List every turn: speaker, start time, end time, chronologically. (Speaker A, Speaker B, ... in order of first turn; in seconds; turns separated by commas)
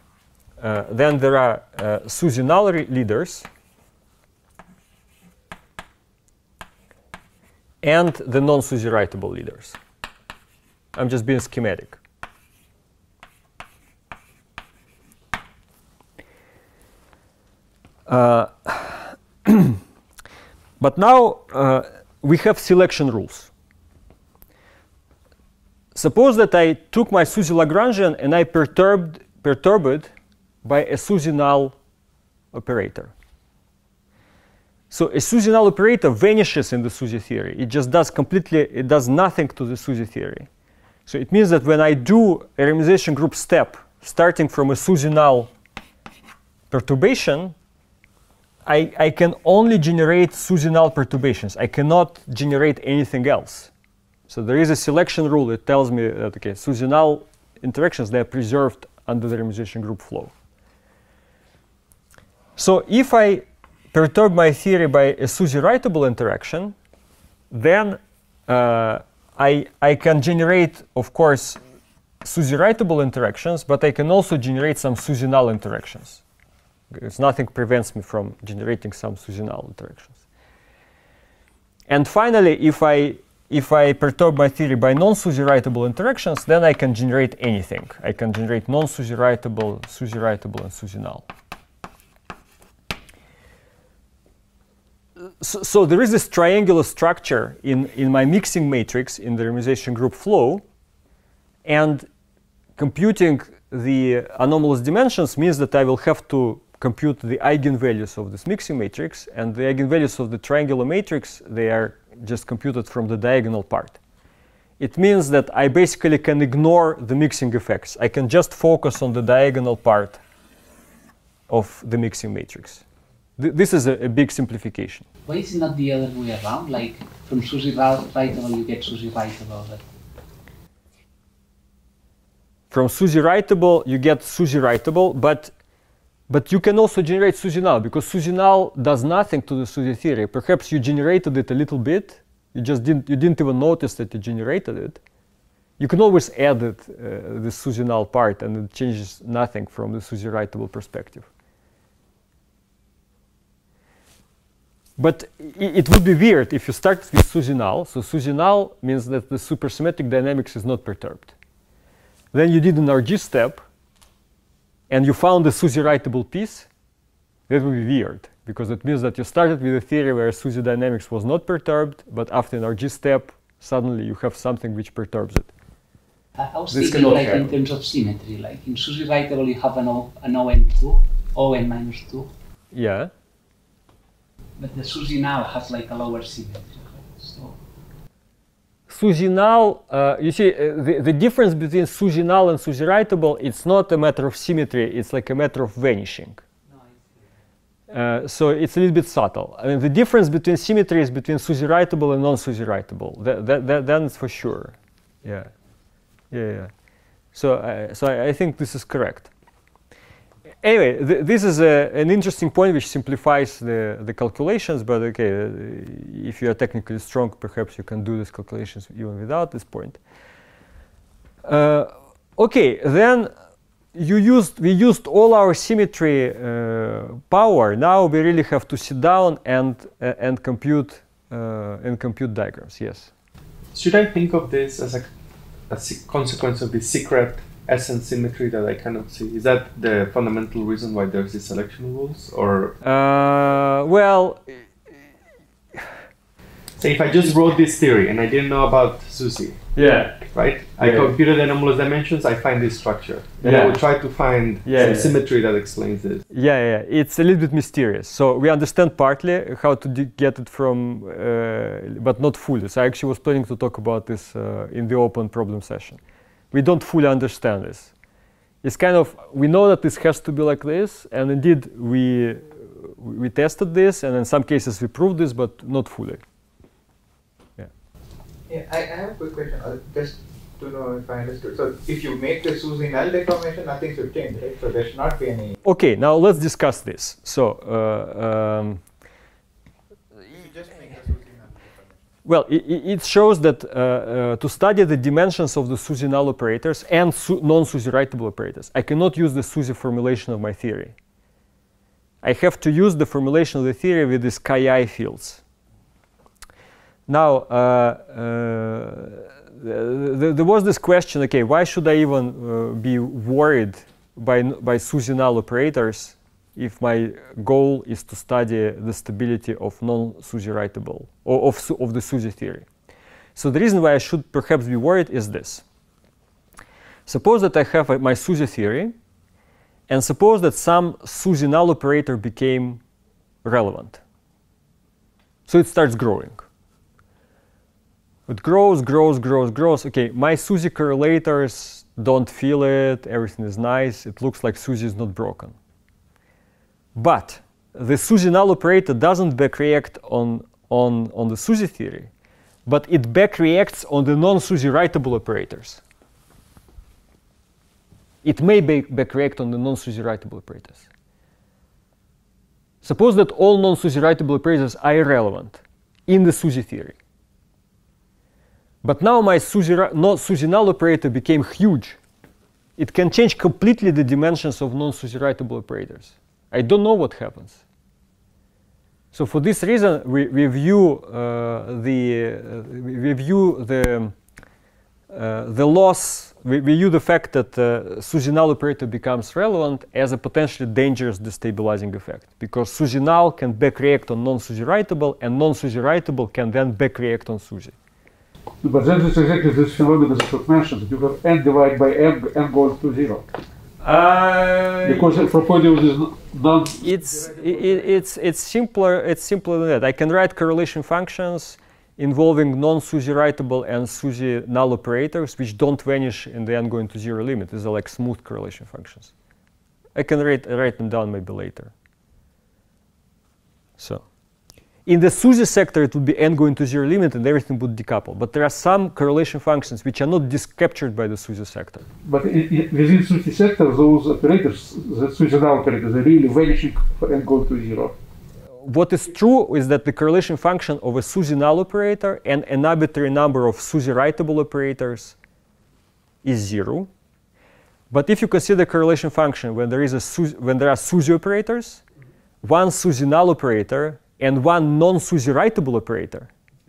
Speaker A: 0.6-3.5, Speaker A: 7.8-9.8, Speaker A: 10.9-12.0, Speaker A: 18.1-19.8, Speaker A: 20.8-23.5, Speaker A: 25.9-30.1, Speaker A: 30.6-31.8, Speaker A: 32.5-33.1, Speaker A: 34.9-40.5, Speaker A: 41.1-45.5, Speaker A: 46.7-47.5, Speaker A: 48.6-53.7, Speaker A: 54.3-60.3, Speaker A: 62.6-66.7, Speaker A: 67.5-71.6, Speaker A: 72.2-76.2, Speaker A: 76.9-80.2, Speaker A: 81.9-91.2, Speaker A: 95.4-100.6, Speaker A: 101.6-102.1, Speaker A: 102.8-114.0, Speaker A: 114.8-120.2, Speaker A: 121.5-122.8, Speaker A: 123.4-125.0, Speaker B: 125.2-129.8, Speaker A: 132.7-135.5, Speaker A: 136.3-145.0, Speaker A: 145.8-151.3, Speaker A: 155.0-161.3, Speaker A: 162.3-163.6, Speaker A: 164.9-166.7, Speaker A: 167.5-175.5, Speaker B: 176.4-182.3, Speaker A: 176.7-177.5, Speaker A: 182.7-183.1, Speaker B: 184.6-187.6, Speaker A: 188.9-196.4, Speaker A: 197.9-205.5, Speaker A: 206.3-206.7, Speaker A: 207.3-209.3, Speaker A: 210.6-220.0, Speaker A: 221.4-223.3, Speaker A: 223.9-233.1, Speaker C: 233.7-235.1, Speaker C: 235.7-242.8, Speaker A: 242.8-244.7, Speaker C: 246.8-249.6, Speaker A: 249.7-250.3, Speaker C: 250.2-256.2, Speaker A: 250.8-251.1, Speaker A: 253.4-253.8, Speaker A: 254.6-255.1, Speaker A: 256.3-266.0, Speaker A: 266.5-267.9, Speaker A: 268.6-276.2, Speaker D: 278.5-285.6, Speaker A: 285.6-288.8, Speaker D: 290.4-291.6, Speaker A: 292.2-300.9, Speaker A: 302.2-305.4, Speaker A: 307.1-322.7, Speaker A: 323.4-325.6, Speaker A: 327.1-328.9, Speaker A: 329.9-332.8, Speaker A: 333.4-334.0, Speaker A: 335.5-336.4, Speaker A: 338.3-345.5, Speaker A: 346.9-352.1, Speaker A: 352.6-355.8, Speaker A: 358.2-360.9, Speaker A: 362.8-366.9, Speaker A: 368.8-372.0, Speaker A: 372.8-377.6, Speaker A: 379.1-384.1, Speaker A: 385.1-397.7, Speaker E: 398.6-403.2, Speaker A: 403.8-405.2, Speaker E: 404.8-407.8, Speaker A: 406.8-419.1, Speaker A: 419.9-421.7, Speaker A: 423.8-424.0, Speaker A: 424.9-431.9, Speaker E: 432.0-437.9, Speaker A: 438.6-445.2, Speaker A: 446.2-446.9, Speaker A: 447.9-451.8, Speaker A: 452.4-456.3